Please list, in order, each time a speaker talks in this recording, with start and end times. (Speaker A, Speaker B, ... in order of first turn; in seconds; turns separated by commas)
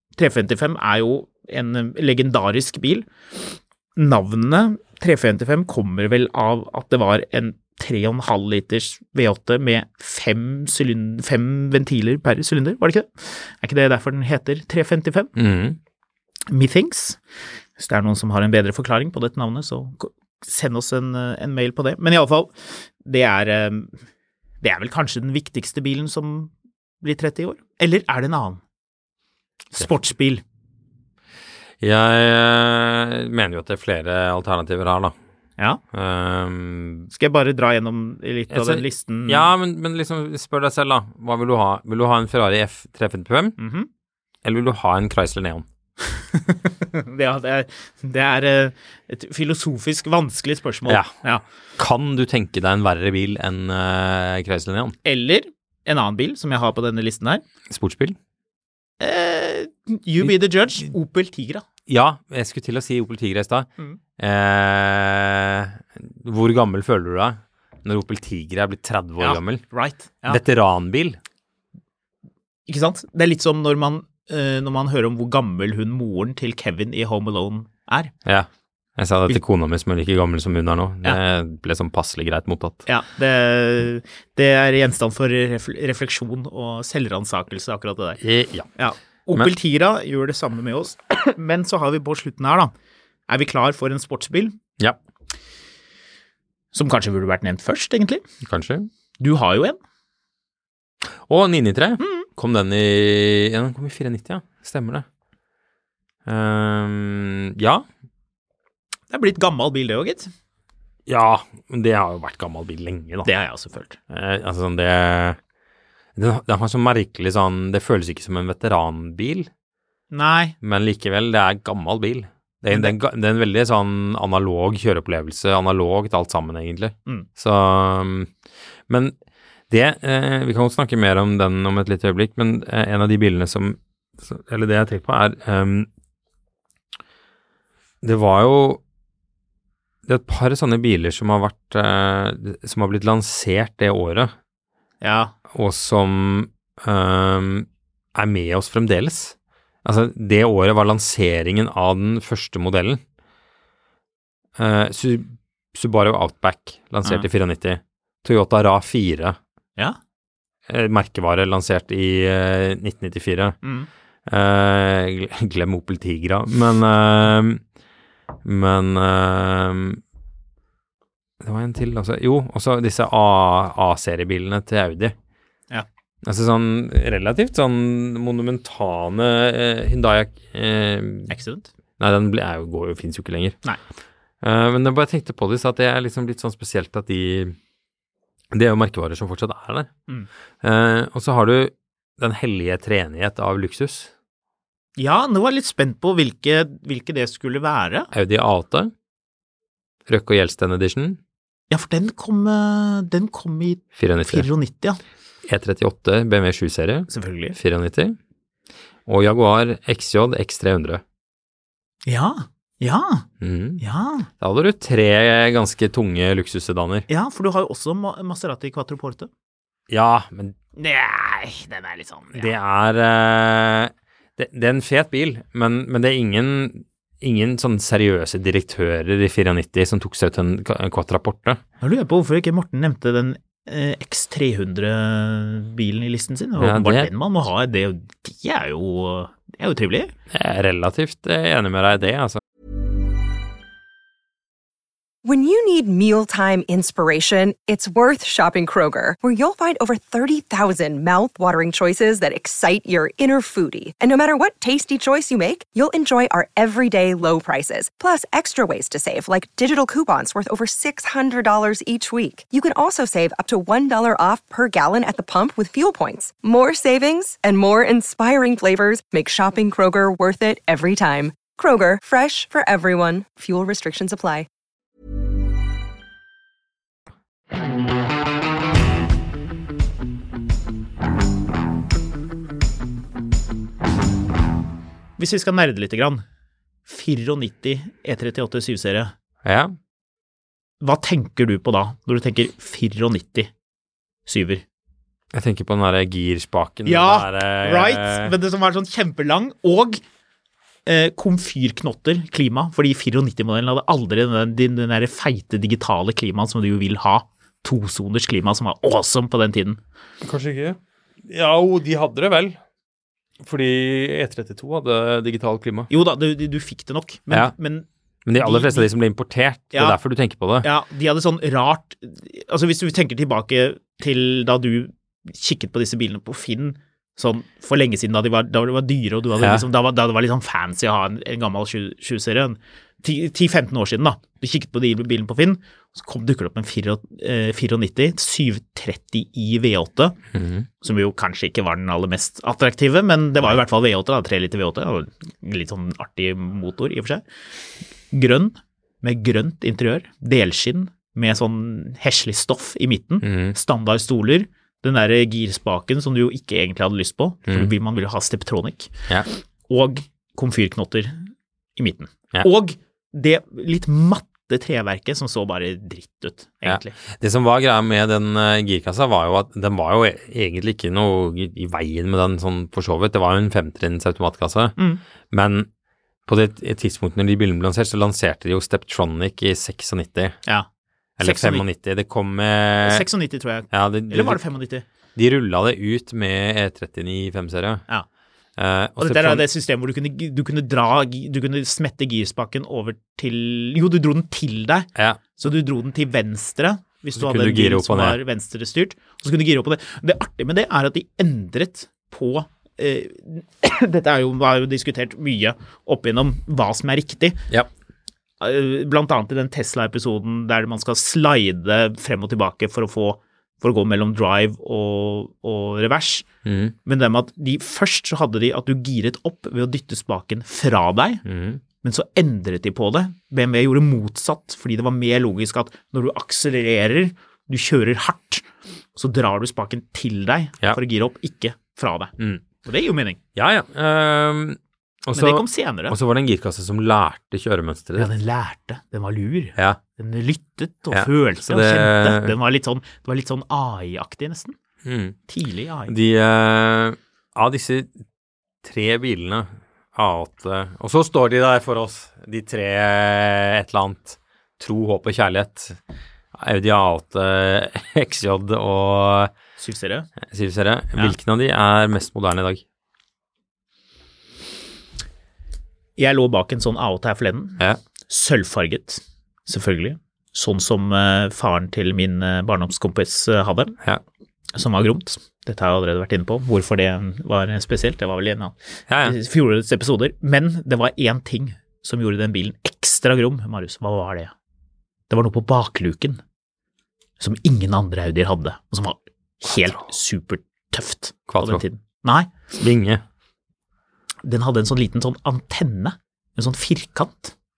Speaker A: 0.2-15.3, Speaker B: 15.4-15.8, Speaker A: 16.5-17.2, Speaker A: 17.8-24.0, Speaker A: 24.6-28.6, Speaker A: 29.7-30.4, Speaker B: 31.8-35.1, Speaker B: 35.9-37.1, Speaker A: 37.1-39.5, Speaker B: 38.5-43.6, Speaker A: 43.6-43.9, Speaker B: 44.4-45.6, Speaker A: 46.0-51.4, Speaker B: 50.9-51.1, Speaker B: 51.8-55.0, Speaker A: 55.0-57.4, Speaker B: 57.7-58.2, Speaker A: 59.0-61.6, Speaker B: 61.9-69.6, Speaker A: 69.2-70.4, Speaker B: 70.3-71.2, Speaker A: 72.7-78.1, Speaker B: 78.2-82.9, Speaker A: 82.9-88.2, Speaker B: 88.2-88.7, Speaker A: 88.8-92.7, Speaker A: 93.3-94.6, Speaker A: 96.7-98.2, Speaker B: 98.4-98.9, Speaker A: 99.2-99.8, Speaker B: 101.2-105.0, Speaker A: 102.0-102.2, Speaker B: 106.2-107.8, Speaker A: 109.1-110.3, Speaker B: 111.1-113.3, Speaker A: 113.2-114.0, Speaker B: 114.1-115.4, Speaker B: 116.2-119.5, Speaker A: 120.1-120.5, Speaker B: 120.6-128.3, Speaker A: 122.7-123.0, Speaker B: 128.9-129.1, Speaker B: 129.7-135.9, Speaker B: 138.0-138.8, Speaker B: 140.1-144.3, Speaker A: 145.0-145.3, Speaker B: 145.5-153.0, Speaker B: 154.6-159.4, Speaker B: 160.7-163.6, Speaker A: 163.6-163.9, Speaker B: 164.3-167.6, Speaker B: 168.4-170.0, Speaker B: 171.4-175.1, Speaker B: 176.2-181.3, Speaker A: 181.3-181.7, Speaker B: 182.0-183.6, Speaker B: 184.4-187.6, Speaker B: 188.5-189.9, Speaker B: 190.6-194.1, Speaker A: 195.0-198.1, Speaker B: 198.1-198.9, Speaker B: 200.1-201.2, Speaker A: 201.7-205.0, Speaker B: 203.9-204.5, Speaker B: 205.4-208.2, Speaker A: 207.1-207.6, Speaker B: 209.1-211.0, Speaker A: 212.0-213.3, Speaker B: 213.4-213.8, Speaker A: 213.8-214.3, Speaker B: 214.4-217.1, Speaker A: 217.1-219.3, Speaker B: 219.9-220.5, Speaker A: 220.8-222.5, Speaker B: 222.3-231.6, Speaker A: 231.8-240.1, Speaker B: 236.6-237.1, Speaker B: 240.3-242.4, Speaker C: 245.2-274.5, Speaker A: 285.2-286.2, Speaker A: 286.9-289.1, Speaker B: 289.4-289.7, Speaker A: 290.8-293.5, Speaker A: 294.2-294.6, Speaker B: 295.3-298.3, Speaker A: 296.9-300.0, Speaker A: 300.9-309.8, Speaker B: 310.2-312.6, Speaker B: 313.4-315.9, Speaker A: 315.9-317.9, Speaker B: 318.2-320.7, Speaker A: 318.4-318.9, Speaker A: 319.7-320.0, Speaker A: 320.6-340.2, Speaker B: 329.4-329.6, Speaker B: 340.3-340.7, Speaker A: 340.8-347.2, Speaker A: 348.1-358.9, Speaker B: 353.2-353.6, Speaker A: 359.7-367.0, Speaker B: 366.6-374.8, Speaker B: 375.3-375.7, Speaker B: 376.2-380.4, Speaker B: 381.2-383.1, Speaker A: 381.2-381.6, Speaker A: 382.8-384.9, Speaker B: 383.7-384.4, Speaker B: 385.1-387.8, Speaker B: 388.6-389.4, Speaker A: 389.0-407.5, Speaker B: 394.9-395.2, Speaker B: 397.1-398.2, Speaker A: 408.4-416.2, Speaker B: 416.4-416.7, Speaker A: 416.9-421.2, Speaker B: 421.2-421.6, Speaker A: 421.8-433.2, Speaker B: 432.2-432.4, Speaker B: 433.4-438.1, Speaker A: 435.1-435.9, Speaker A: 438.0-444.6, Speaker B: 440.9-442.4, Speaker B: 444.9-445.2, Speaker A: 445.3-445.9, Speaker B: 445.9-447.9, Speaker B: 448.6-455.8, Speaker B: 456.4-459.3, Speaker A: 459.6-460.1, Speaker B: 460.2-462.6, Speaker A: 466.0-473.8, Speaker A: 474.5-484.3, Speaker B: 478.9-479.2, Speaker A: 485.1-486.2, Speaker A: 487.2-492.3, Speaker B: 491.3-491.6, Speaker B: 492.6-493.0, Speaker A: 494.2-497.4